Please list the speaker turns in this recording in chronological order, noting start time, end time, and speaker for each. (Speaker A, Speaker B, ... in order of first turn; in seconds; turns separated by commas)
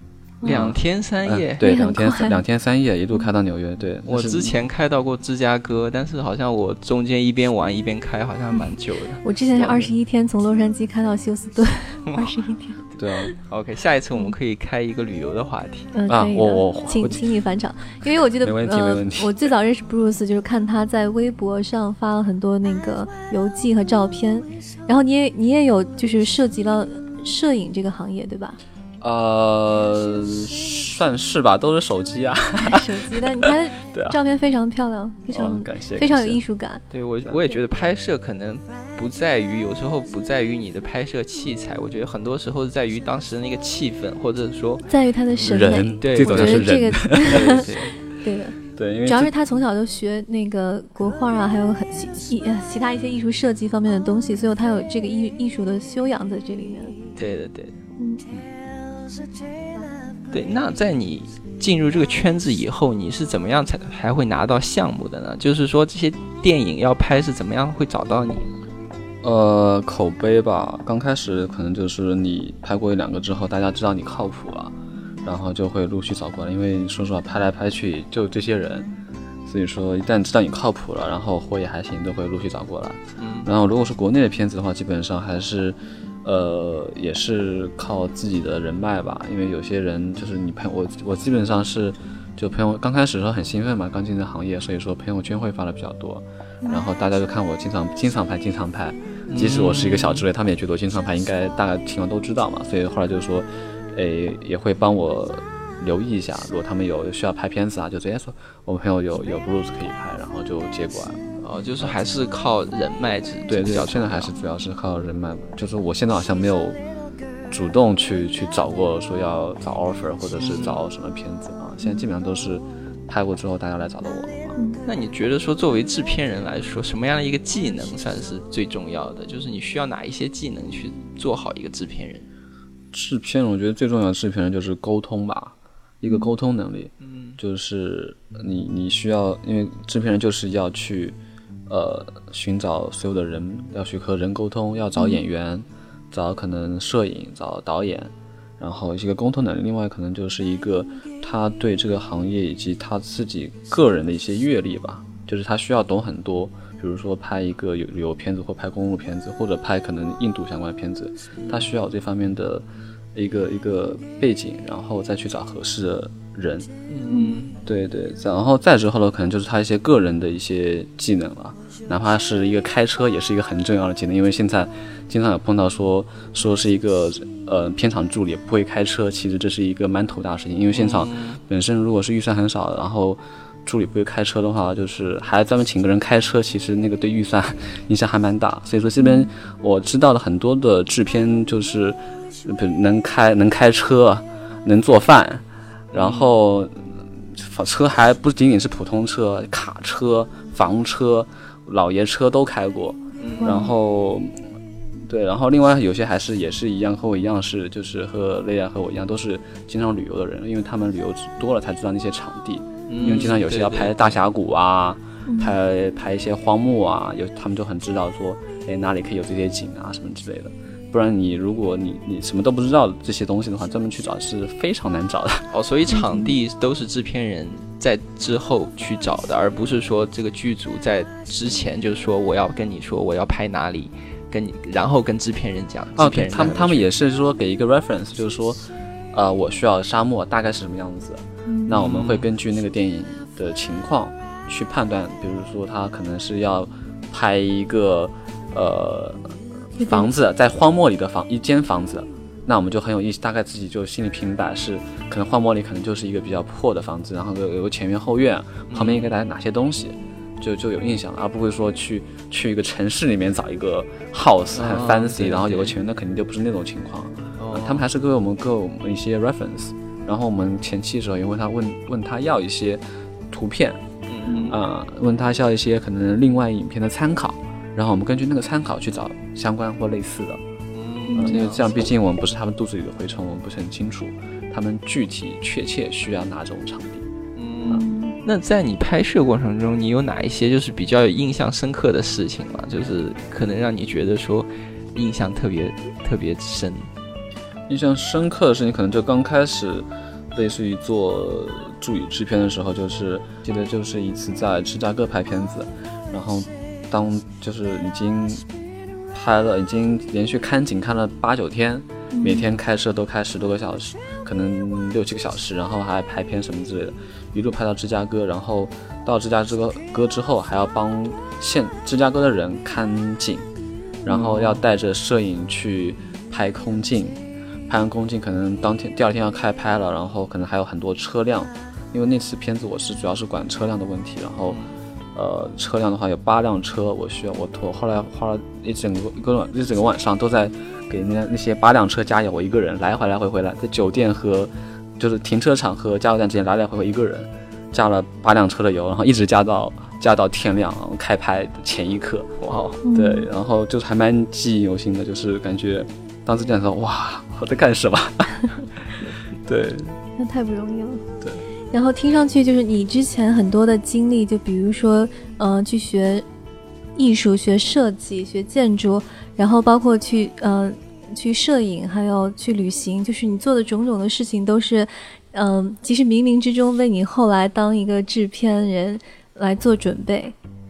Speaker A: 0.4-4.6, Speaker B: 0.4-1.7, Speaker C: 1.6-2.4, Speaker B: 4.1-9.9, Speaker C: 9.2-12.8, Speaker A: 13.0-13.3, Speaker B: 13.5-15.9, Speaker C: 15.9-28.6, Speaker A: 16.1-17.3, Speaker A: 18.4-19.3, Speaker A: 29.0-34.2, Speaker C: 32.6-36.8, Speaker A: 35.3-36.4, Speaker B: 36.9-44.9, Speaker C: 44.9-47.6, Speaker A: 45.4-47.7, Speaker B: 46.0-47.9, Speaker C: 48.2-57.0, Speaker A: 48.7-49.3, Speaker B: 57.1-57.8, Speaker B: 60.3-68.5, Speaker A: 69.2-78.9, Speaker A: 79.5-111.2, Speaker B: 83.2-83.5, Speaker B: 99.3-100.2, Speaker B: 111.4-114.3, Speaker A: 113.5-116.8, Speaker A: 117.5-124.6, Speaker B: 120.4-120.8, Speaker B: 124.8-132.3, Speaker A: 132.9-141.2, Speaker B: 137.0-137.4, Speaker A: 141.7-166.7, Speaker B: 161.4-161.7, Speaker B: 166.9-167.6, Speaker C: 167.1-167.4, Speaker A: 167.6-204.5, Speaker B: 180.7-181.4, Speaker B: 195.9-196.3, Speaker B: 203.2-203.6, Speaker C: 203.4-203.7, Speaker A: 205.1-225.5, Speaker B: 212.9-214.2, Speaker C: 215.2-215.5, Speaker B: 225.5-236.9, Speaker C: 225.9-226.3, Speaker A: 236.0-273.8, Speaker C: 241.5-241.8, Speaker B: 241.7-242.3, Speaker C: 249.8-250.1, Speaker B: 258.7-259.1, Speaker B: 264.5-265.7, Speaker B: 267.4-267.8, Speaker B: 274.1-274.6, Speaker C: 274.3-274.5, Speaker A: 274.5-280.4, Speaker B: 280.7-281.8, Speaker C: 281.1-281.4, Speaker A: 281.2-287.1, Speaker B: 287.4-296.9, Speaker C: 287.7-288.1, Speaker A: 297.7-308.4, Speaker A: 309.1-323.5, Speaker C: 312.1-312.5, Speaker A: 324.0-334.6, Speaker B: 324.1-324.6, Speaker A: 335.1-360.0, Speaker B: 352.4-352.8, Speaker C: 352.8-353.3, Speaker C: 360.2-361.0, Speaker C: 361.7-366.2, Speaker C: 366.9-380.3